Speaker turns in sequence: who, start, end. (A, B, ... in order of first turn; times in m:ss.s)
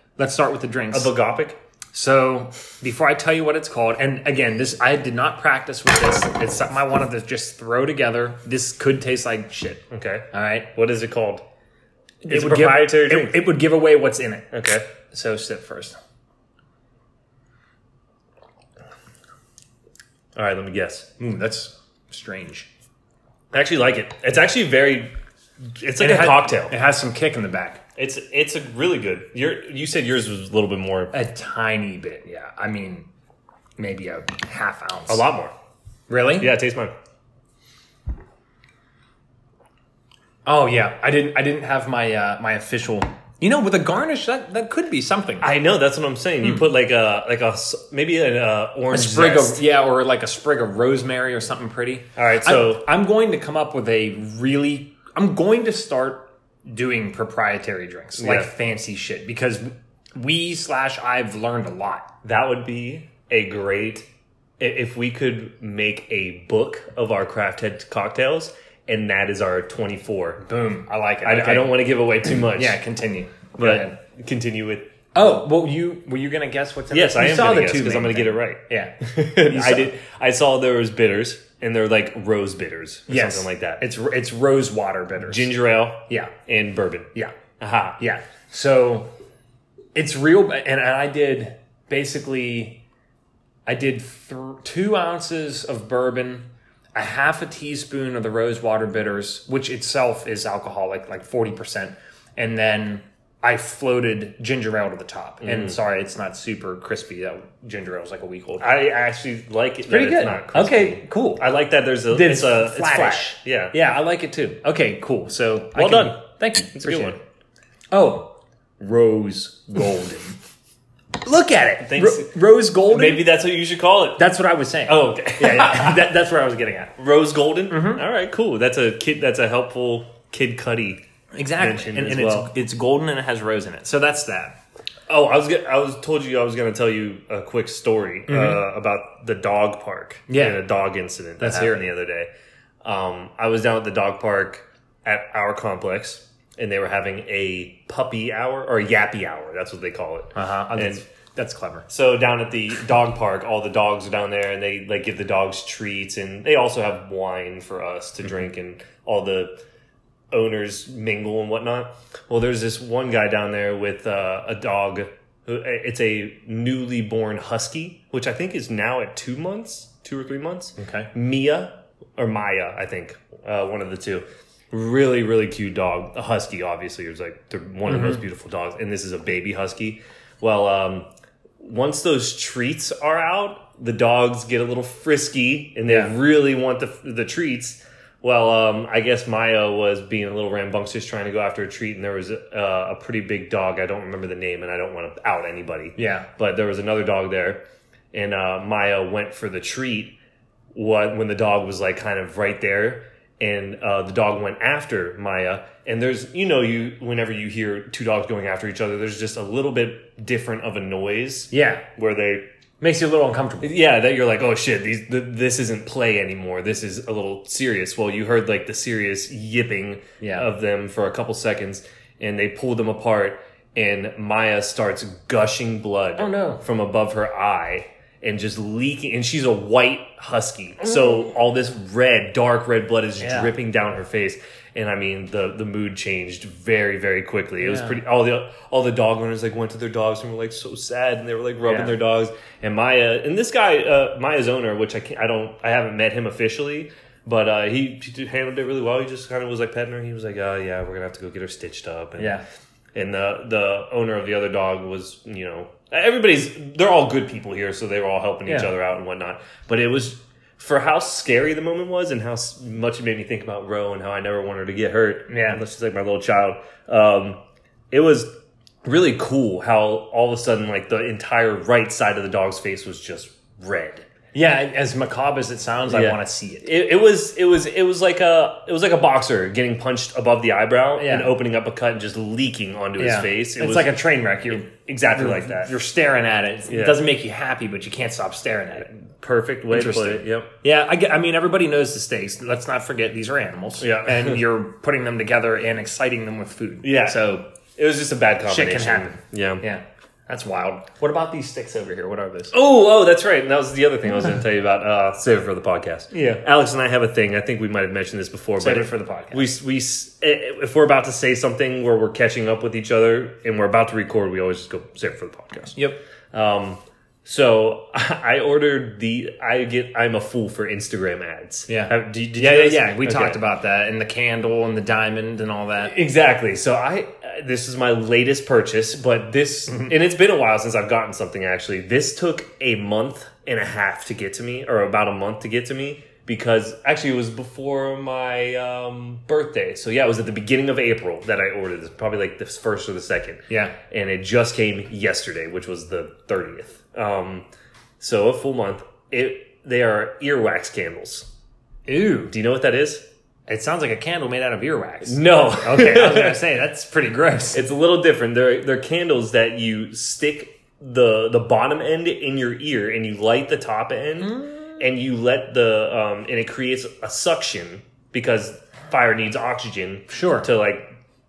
0:00.2-0:01.1 A
0:00.9-0:01.6 B
0:01.9-0:10.7 A
0:09.9-0:11.4 B
0:12.2-0:13.4 B
0:12.3-0:14.5 A
0:14.5-0:14.8 B
0:15.1-0:16.0 A
0:20.3-0:21.1 B
0:21.2-0:22.7 A
0:23.5-0:25.1 B
0:25.8-0:26.7 B
0:26.0-0:27.8 A
0:28.0-0:31.1 B
0:31.1-0:33.1 A
0:33.8-0:35.2 A
0:35.1-0:35.5 B
0:36.1-0:36.5 A
0:36.4-0:36.9 B
0:40.4-0:45.5 A
0:45.4-0:49.6 B
0:46.4-0:46.7 A
0:48.9-1:02.1 A
0:52.2-0:52.8 B
0:58.2-0:58.5 B
1:02.2-1:04.1 B
1:04.6-1:10.4 B
1:10.4-1:14.0 A
1:11.2-1:12.8 B
1:13.6-1:14.9 B
1:15.1-1:19.9 A
1:16.9-1:23.8 B
1:23.1-1:25.5 A
1:25.2-1:28.0 B
1:26.1-1:26.3 A
1:28.0-1:29.1 A
1:29.9-1:32.8 A
1:33.7-1:48.7 A
1:45.4-1:45.8 B
1:48.6-1:53.7 B
1:49.9-1:51.4 A
1:52.1-1:57.2 A
1:55.7-1:57.2 B
1:57.9-2:00.4 A
2:01.2-2:03.2 A
2:01.8-2:04.2 B
2:04.2-2:06.9 A
2:04.8-2:06.1 B
2:07.0-2:11.0 B
2:07.7-2:08.0 A
2:11.3-2:14.6 A
2:11.6-2:12.5 B
2:15.1-2:22.3 B
2:18.3-2:18.6 A
2:20.3-2:20.6 A
2:21.4-2:21.8 A
2:22.8-2:31.0 B
2:30.3-2:31.9 A
2:31.9-2:39.6 B
2:40.3-3:01.1 B
2:50.8-2:51.1 A
2:57.8-2:58.2 A
3:01.6-3:17.6 B
3:05.8-3:06.1 A
3:16.0-3:16.3 A
3:18.1-3:20.2 B
3:20.7-3:32.5 B
3:31.5-3:31.8 A
3:32.8-3:33.7 A
3:33.6-4:12.4 B
3:40.2-3:40.5 A
3:46.2-3:46.6 A
3:53.2-3:53.5 A
3:57.6-3:58.0 A
4:01.6-4:01.9 A
4:12.2-4:12.4 A
4:12.9-4:27.4 B
4:18.4-4:18.7 A
4:25.3-4:25.6 A
4:27.9-4:28.3 B
4:28.8-4:34.1 B
4:34.3-4:36.7 A
4:35.9-4:43.9 B
4:41.0-4:41.3 A
4:43.0-4:48.9 A
4:44.5-4:45.7 B
4:46.7-4:47.0 B
4:49.0-4:50.5 B
4:49.7-4:57.4 A
4:53.8-4:54.4 B
4:56.8-4:59.6 B
4:58.4-5:02.5 A
5:02.5-5:15.8 B
5:06.1-5:06.4 A
5:08.6-5:09.4 A
5:15.7-5:16.0 A
5:16.3-5:23.4 B
5:21.7-5:25.9 A
5:25.8-5:47.4 B
5:43.5-5:43.8 A
5:48.0-5:51.3 B
5:51.8-5:52.3 A
5:52.3-5:53.0 B
5:53.5-5:57.6 A
5:55.0-5:56.4 B
5:57.5-6:10.9 B
6:04.2-6:04.8 A
6:10.1-6:10.5 A